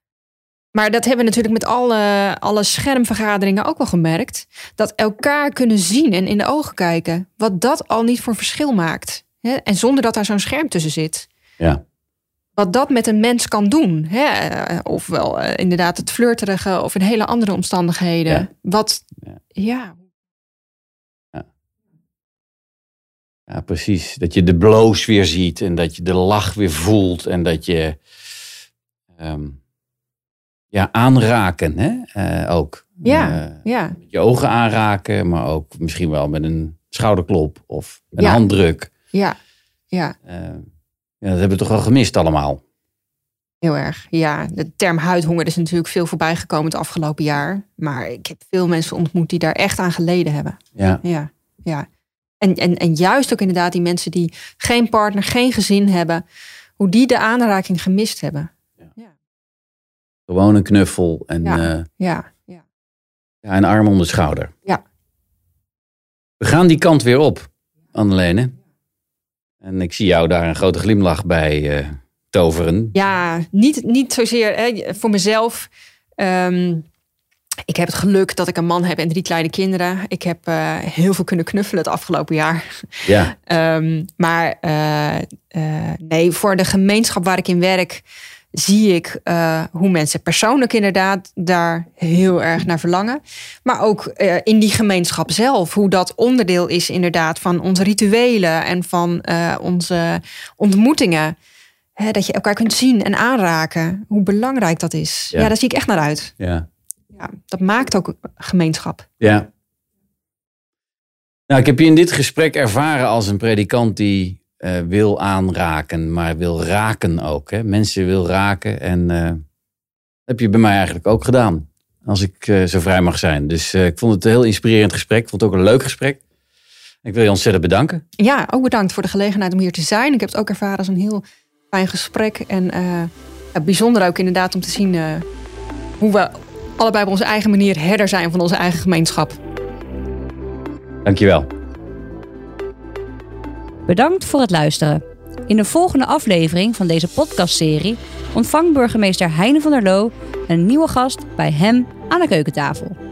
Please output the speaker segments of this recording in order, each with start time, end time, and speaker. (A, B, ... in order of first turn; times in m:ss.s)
0:00.7-0:11.3 A
0:12.6-0:20.0 A
0:23.5-0:28.0 B
0:29.2-0:29.6 B
0:30.7-0:38.9 B
0:33.0-0:34.0 A
0:40.2-0:40.7 B
0:41.2-0:42.6 B
0:43.6-0:51.9 A
0:50.8-0:51.0 B
0:52.4-0:56.2 A
0:56.8-0:59.1 A
1:00.3-1:01.9 B
1:01.4-1:02.6 A
1:03.4-1:04.5 B
1:06.4-1:08.5 B
1:09.6-1:13.0 B
1:12.9-1:16.9 A
1:17.7-1:41.4 A
1:23.0-1:23.3 B
1:42.0-1:46.3 A
1:46.4-1:46.7 B
1:47.2-1:49.1 A
1:49.2-1:49.5 B
1:51.5-1:59.4 B
2:00.3-2:06.2 B
2:07.0-2:08.0 B
2:08.2-2:15.3 A
2:16.0-2:19.4 A
2:21.0-2:21.5 B
2:23.9-2:33.0 C